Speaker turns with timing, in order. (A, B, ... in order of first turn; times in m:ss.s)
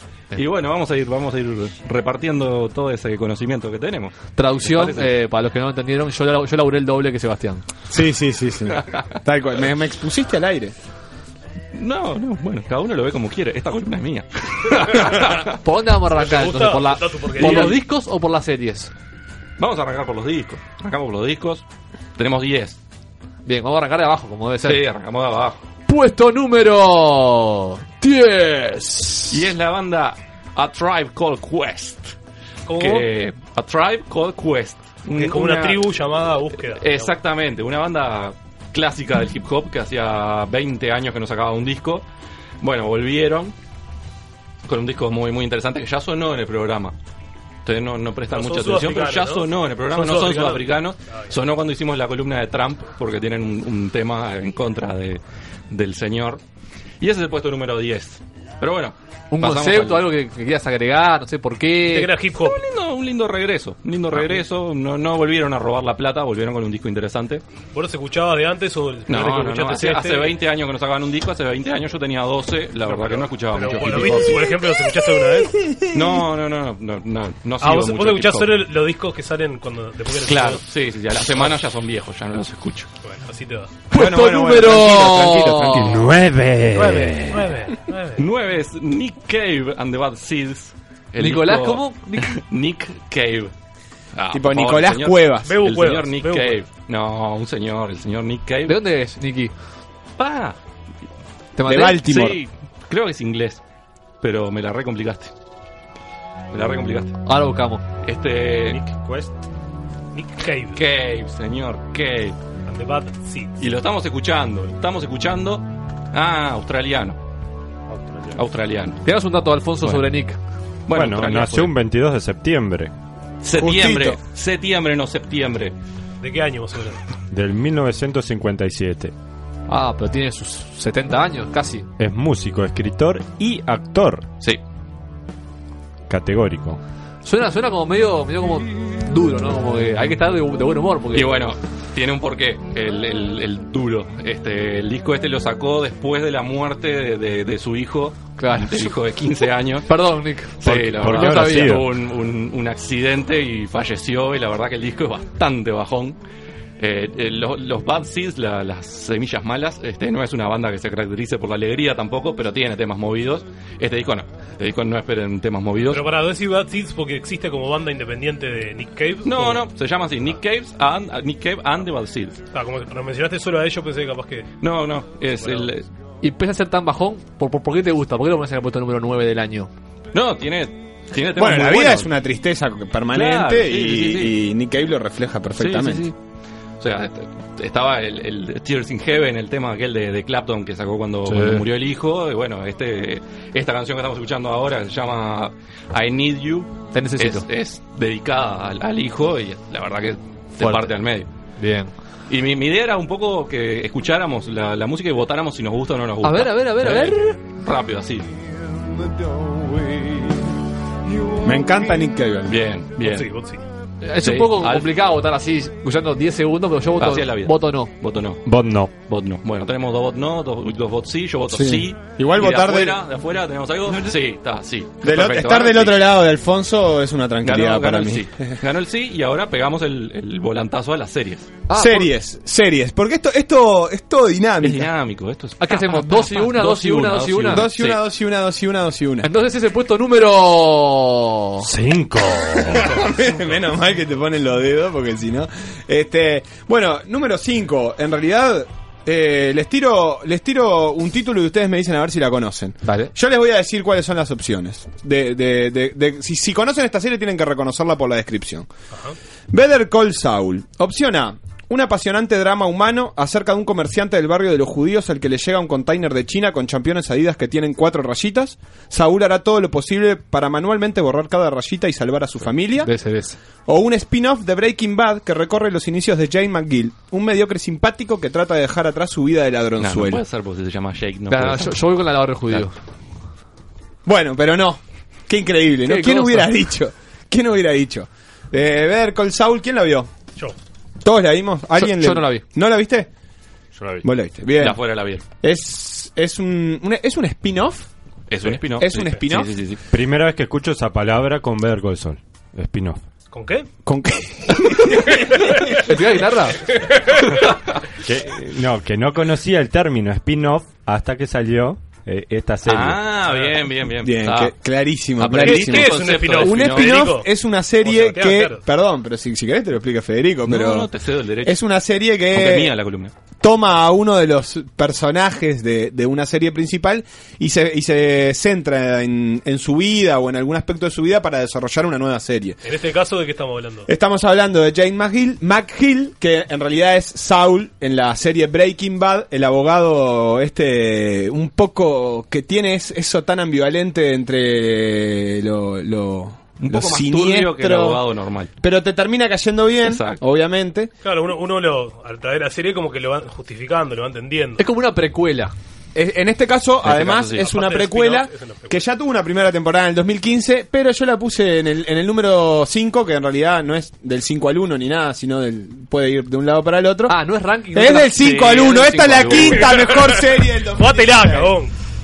0:00.3-0:05.1 A
0:04.3-0:07.6 B
0:07.9-0:10.7 C
0:08.7-0:09.0 A
0:11.7-0:15.6 A
0:15.6-0:18.9 B
0:16.1-0:17.8 D
0:17.4-0:17.7 A
0:19.6-0:21.6 A
0:22.2-0:22.8 A
0:23.4-0:24.8 B
0:24.6-0:25.6 A
0:25.9-0:29.4 B
0:29.3-0:32.1 A
0:32.7-0:33.1 D
0:32.8-0:35.9 A
0:35.2-0:37.1 D
0:36.6-0:42.0 A
0:42.6-0:43.5 A
0:44.6-0:46.9 A
0:47.6-0:56.4 A
0:48.3-0:51.3 D
0:57.0-1:00.1 A
0:59.3-1:02.1 B
1:01.9-1:02.6 D
1:02.4-1:07.4 A
1:07.7-1:10.3 D
1:09.1-1:14.5 A
1:12.9-1:15.6 D
1:15.9-1:18.6 A
1:17.6-1:20.6 D
1:20.2-1:22.9 A
1:23.0-1:23.8 D
1:23.9-1:26.1 B
1:23.9-1:26.2 C
1:26.7-1:28.2 D
1:28.2-1:33.5 A
1:31.2-1:32.4 B
1:34.1-1:38.8 A
1:34.3-1:35.6 C
1:35.4-1:36.6 D
1:38.7-1:39.5 B
1:40.2-1:40.6 A
1:41.6-1:42.0 B
1:41.6-1:42.4 C
1:41.9-1:43.6 A
1:44.2-1:45.3 A
1:46.5-1:47.2 A
1:47.2-1:47.8 B
1:48.0-1:48.8 A
1:48.7-1:49.3 E
1:50.1-1:50.8 D
1:50.7-1:52.4 A
1:52.7-1:53.5 D
1:53.6-1:57.2 A
1:58.0-1:58.3 E
1:58.3-1:59.0 A
1:59.0-2:00.4 B
2:00.9-2:01.7 A
2:00.9-2:02.9 E
2:03.4-2:05.7 A
2:03.6-2:04.2 C
2:06.2-2:07.0 D
2:07.3-2:09.1 E
2:09.7-2:11.9 B
2:12.0-2:14.3 E
2:16.1-2:16.8 E
2:17.2-2:21.4 B
2:21.1-2:29.9 A
2:28.4-2:28.9 B
2:29.9-2:31.8 B
2:30.6-2:36.2 A
2:30.6-2:31.9 E
2:36.8-2:46.1 A
2:45.9-2:49.6 D
2:49.2-2:52.4 A
2:52.5-2:54.5 D
2:54.6-2:55.8 A
2:55.4-2:55.7 D
2:56.2-2:59.7 B
3:00.1-3:02.1 A
3:01.4-3:06.0 C
3:03.1-3:04.4 A
3:05.6-3:06.2 A
3:06.8-3:21.3 A
3:11.2-3:11.6 B
3:16.9-3:17.4 B
3:20.6-3:20.9 B
3:21.6-3:21.9 B
3:22.3-3:28.2 A
3:26.2-3:27.4 B
3:31.4-3:32.6 C
3:32.4-3:33.3 A
3:33.0-3:33.6 D
3:34.0-3:37.9 B
3:34.2-3:34.9 A
3:37.0-3:38.4 A
3:38.4-3:38.9 E
3:39.0-3:46.0 A
3:41.5-3:43.0 C
3:45.0-3:48.5 C
3:47.4-3:51.5 A
3:51.7-3:52.1 B
3:51.7-3:54.9 C
3:54.6-3:58.0 A
3:55.6-3:57.7 B
3:57.5-3:59.3 C
3:59.2-4:01.7 B
4:01.7-4:02.9 D
4:02.6-4:18.7 C
4:12.8-4:13.1 B
4:19.5-4:32.9 C
4:32.8-4:33.4 B
4:33.6-4:40.2 C
4:39.8-4:41.8 A
4:41.3-4:42.7 B
4:44.0-4:50.1 C
4:45.8-4:46.5 B
4:51.0-4:53.1 C
4:51.8-4:52.4 B
4:54.0-4:54.8 C
4:54.6-4:55.2 A
4:55.4-4:57.9 C
4:58.3-4:59.8 A
4:58.4-4:59.5 C
4:59.9-5:03.0 E
5:03.3-5:03.6 D
5:03.8-5:05.1 C
5:05.2-5:05.8 D
5:05.8-5:06.6 B
5:06.7-5:07.2 D
5:08.0-5:13.0 E
5:12.6-5:14.5 A
5:13.3-5:13.6 D
5:14.0-5:20.9 C
5:15.2-5:17.1 A
5:15.4-5:17.3 D
5:17.8-5:18.6 D
5:20.4-5:21.6 A
5:21.4-5:22.7 C
5:22.3-5:23.1 A
5:23.4-5:32.6 C
5:32.6-5:33.9 D
5:33.9-5:48.0 C
5:46.6-5:48.5 A
5:48.6-5:50.9 C
5:49.8-5:50.2 A
5:51.0-5:54.6 D
5:54.6-5:55.5 B
5:55.9-6:07.2 C
5:56.8-5:57.5 A
5:57.4-5:58.8 D
6:07.1-6:09.3 B
6:07.7-6:11.6 C
6:08.2-6:09.9 A
6:09.4-6:10.1 D
6:10.7-6:11.7 D